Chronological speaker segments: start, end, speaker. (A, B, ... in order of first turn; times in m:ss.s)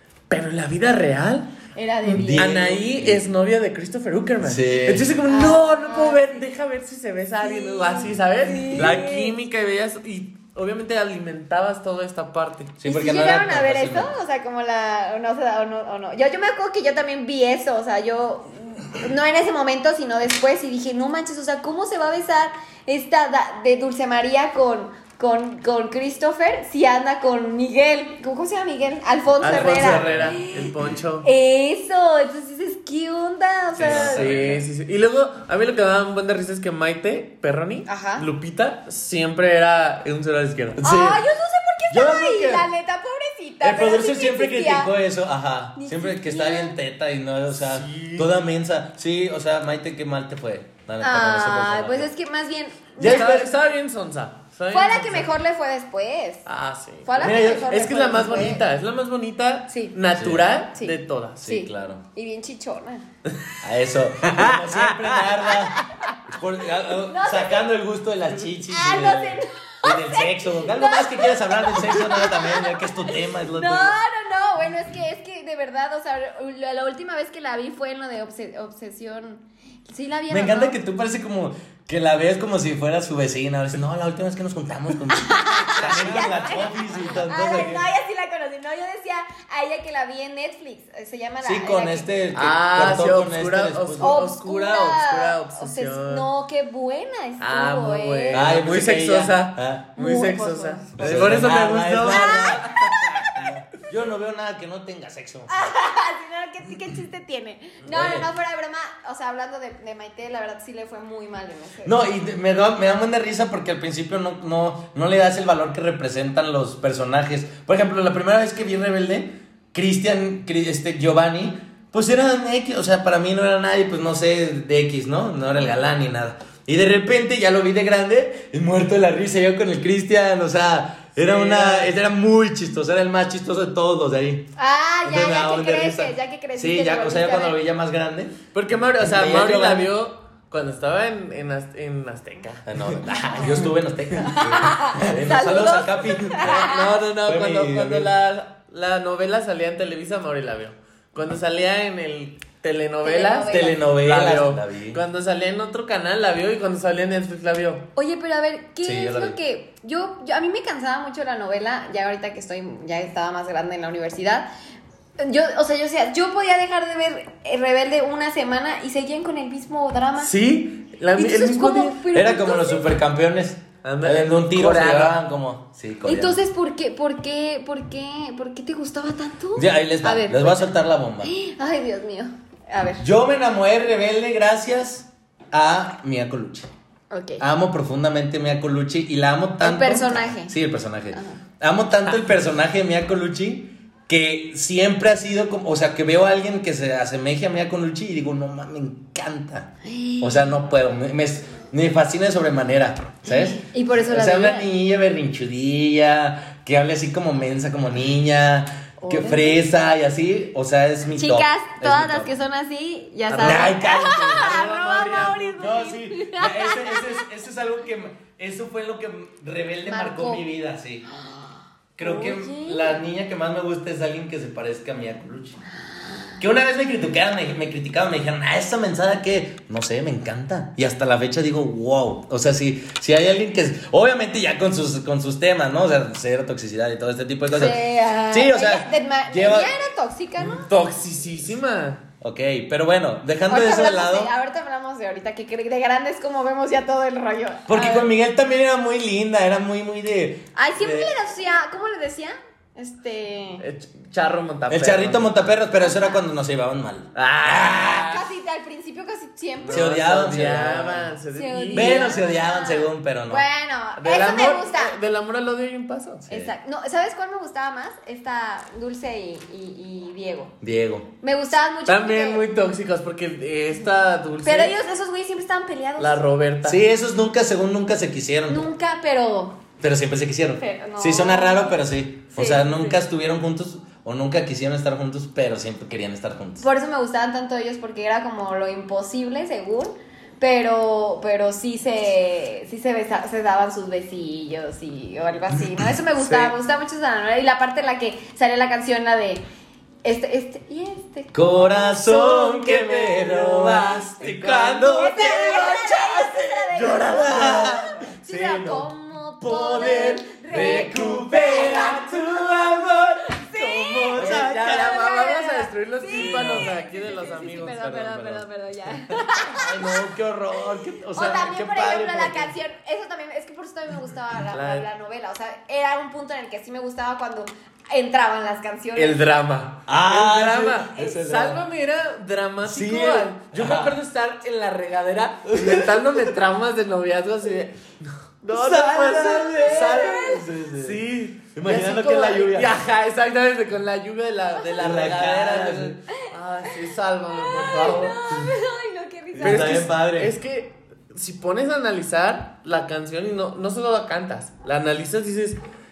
0:00.3-0:01.5 A
0:01.8-0:02.4 B
0:02.0-0:03.2 C
0:02.3-0:12.7 A
0:04.4-0:05.1 C
0:05.2-0:06.3 B
0:07.4-0:09.3 B
0:12.8-0:14.1 C
0:12.8-0:30.6 B
0:29.4-0:31.3 A
0:29.4-0:30.4 C
0:31.2-0:34.2 B
0:33.7-0:34.6 C
0:33.8-0:40.8 A
0:37.8-0:38.2 B
0:40.8-0:41.2 C
0:40.8-0:44.9 B
0:41.9-0:42.7 C
0:43.6-0:52.1 C
0:45.8-0:46.8 B
0:47.5-0:48.3 A
0:51.0-0:53.4 B
0:53.0-0:53.5 C
0:53.0-0:55.3 A
0:54.7-0:56.4 B
0:56.4-1:01.5 A
0:57.0-0:58.6 B
0:57.2-0:57.7 C
1:00.2-1:00.5 C
1:00.7-1:03.0 B
1:01.4-1:02.0 C
1:03.6-1:14.0 C
1:04.2-1:06.1 A
1:06.9-1:07.7 B
1:08.7-1:20.8 B
1:20.3-1:27.8 C
1:25.1-1:32.1 B
1:31.4-1:34.3 C
1:32.3-1:36.3 A
1:34.0-1:38.6 B
1:37.4-1:42.6 A
1:38.3-1:39.9 C
1:40.0-1:41.4 B
1:41.0-1:45.7 C
1:42.0-1:43.4 B
1:45.5-1:52.0 B
1:47.8-1:48.3 C
1:51.8-2:14.5 C
2:11.2-2:11.9 A
2:14.6-2:17.6 B
2:15.0-2:18.4 C
2:18.5-2:23.0 A
2:19.0-2:19.9 C
2:22.6-2:28.1 C
2:23.2-2:23.5 B
2:24.2-2:26.7 B
2:26.4-2:37.9 A
2:33.0-2:33.8 B
2:33.5-2:35.0 C
2:37.9-2:44.5 B
2:38.8-2:39.4 C
2:45.2-2:50.3 B
2:50.2-2:52.0 A
2:51.1-2:52.9 B
2:52.1-2:56.4 C
2:53.8-2:55.2 A
2:56.0-3:00.7 B
2:59.6-3:01.3 C
3:01.2-3:03.0 B
3:03.0-3:06.7 C
3:07.1-3:07.4 B
3:07.4-3:32.3 C
3:09.6-3:10.5 B
3:11.1-3:11.4 B
3:19.8-3:20.5 B
3:23.2-3:24.7 B
3:29.0-3:29.6 B
3:31.2-3:37.2 B
3:33.3-3:34.5 C
3:33.4-3:35.7 A
3:35.6-3:41.1 C
3:39.8-3:40.4 B
3:41.1-3:43.0 B
3:42.0-3:45.6 C
3:46.0-3:46.3 B
3:46.4-3:59.7 C
3:57.5-4:00.7 B
4:00.6-4:02.0 A
4:02.2-4:04.3 C
4:03.5-4:08.1 B
4:07.7-4:11.1 C
4:10.5-4:13.6 B
4:13.6-4:15.3 A
4:14.7-4:18.2 C
4:15.8-4:16.2 B
4:17.1-4:18.3 A
4:18.0-4:20.3 B
4:19.6-4:22.1 A
4:19.7-4:21.1 C
4:21.3-4:25.0 B
4:21.7-4:23.4 C
4:24.0-4:26.3 A
4:26.3-4:30.5 B
4:30.6-4:31.1 C
4:31.2-4:32.4 B
4:31.9-4:34.7 A
4:34.4-4:36.2 B
4:36.0-4:36.8 A
4:36.6-4:38.7 C
4:38.5-4:39.6 B
4:39.8-4:46.6 C
4:40.6-4:41.8 B
4:42.3-4:42.7 B
4:46.6-4:59.4 B
5:00.0-5:02.0 B
5:01.3-5:08.9 C
5:02.1-5:05.6 A
5:04.8-5:20.0 B
5:09.4-5:15.1 C
5:10.5-5:11.2 A
5:14.1-5:18.4 A
5:16.1-5:17.1 C
5:19.5-5:22.5 C
5:21.1-5:29.2 B
5:24.5-5:24.9 A
5:29.0-5:48.2 A
5:29.9-5:31.6 C
5:32.6-5:33.9 C
5:35.4-5:36.1 C
5:38.5-5:41.0 C
5:39.5-5:40.4 B
5:41.5-5:42.8 C
5:44.6-5:46.0 C
5:46.1-5:46.8 B
5:47.3-5:49.8 B
5:49.4-5:50.3 C
5:49.4-5:55.6 A